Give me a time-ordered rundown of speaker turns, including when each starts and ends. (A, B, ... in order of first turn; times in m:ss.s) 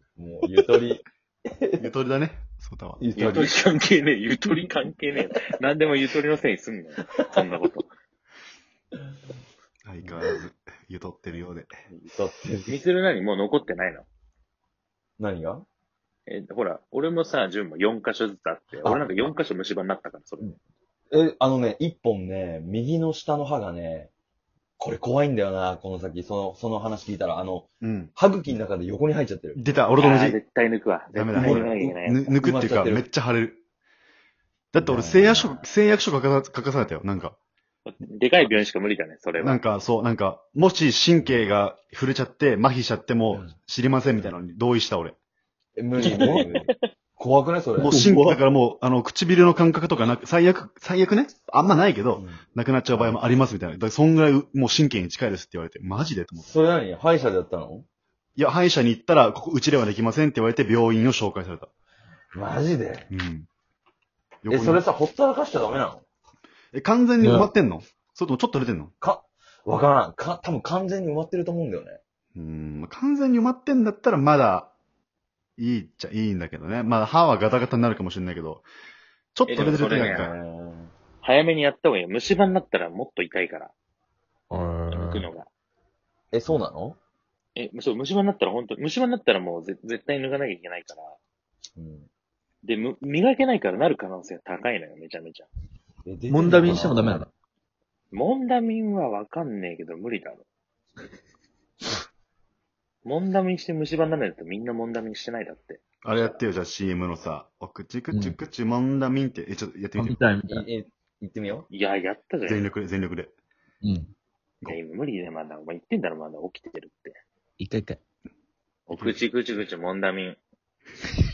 0:00.2-0:01.8 A
0:01.8-0:03.0 B
0:03.0-0:03.6 A
0:03.2-0:07.9 C
0:09.8-0:11.7 B
0:10.1-0:10.3 A
0:12.1-0:12.8 A
0:12.7-0:14.0 C
0:15.2-0:15.6 A
0:16.3-0:20.5 C
0:18.8-0:19.3 A
0:21.1-0:24.1 A
0:24.8-0:29.6 A
0:27.8-0:28.1 B
0:29.6-0:30.4 B
0:30.0-0:32.4 C
0:31.1-0:33.6 B
0:31.3-0:33.0 A
0:34.7-0:37.4 B
0:34.8-0:35.5 A
0:37.8-0:39.6 C
0:39.4-0:45.2 B
0:45.8-0:48.0 A
0:46.0-0:46.4 D
0:46.1-0:46.6 C
0:47.8-0:56.5 B
0:47.8-0:48.4 D
0:56.4-0:57.8 A
0:58.4-1:01.7 B
1:02.3-1:03.1 A
1:03.1-1:03.5 B
1:04.4-1:04.8 B
1:04.5-1:06.0 A
1:06.7-1:08.9 B
1:07.2-1:07.5 D
1:09.0-1:12.0 A
1:12.3-1:14.7 B
1:15.6-1:18.6 B
1:19.3-1:20.3 B
1:19.5-1:20.3 C
1:19.7-1:20.9 A
1:21.2-1:23.7 C
1:24.5-1:25.3 D
1:24.9-1:25.5 C
1:26.3-1:27.0 A
1:27.6-1:31.2 C
1:31.8-1:32.1 A
1:32.6-1:35.5 C
1:36.0-1:37.2 A
1:36.3-1:37.3 D
1:38.1-1:40.4 C
1:43.0-1:46.4 C
1:46.0-1:50.2 B
1:48.1-1:48.4 D
1:50.0-1:50.6 D
1:50.5-1:51.7 A
1:51.7-1:52.7 C
1:52.4-1:53.3 B
1:53.8-1:54.1 D
1:54.6-1:57.2 C
1:57.6-1:58.0 D
1:58.9-2:00.4 C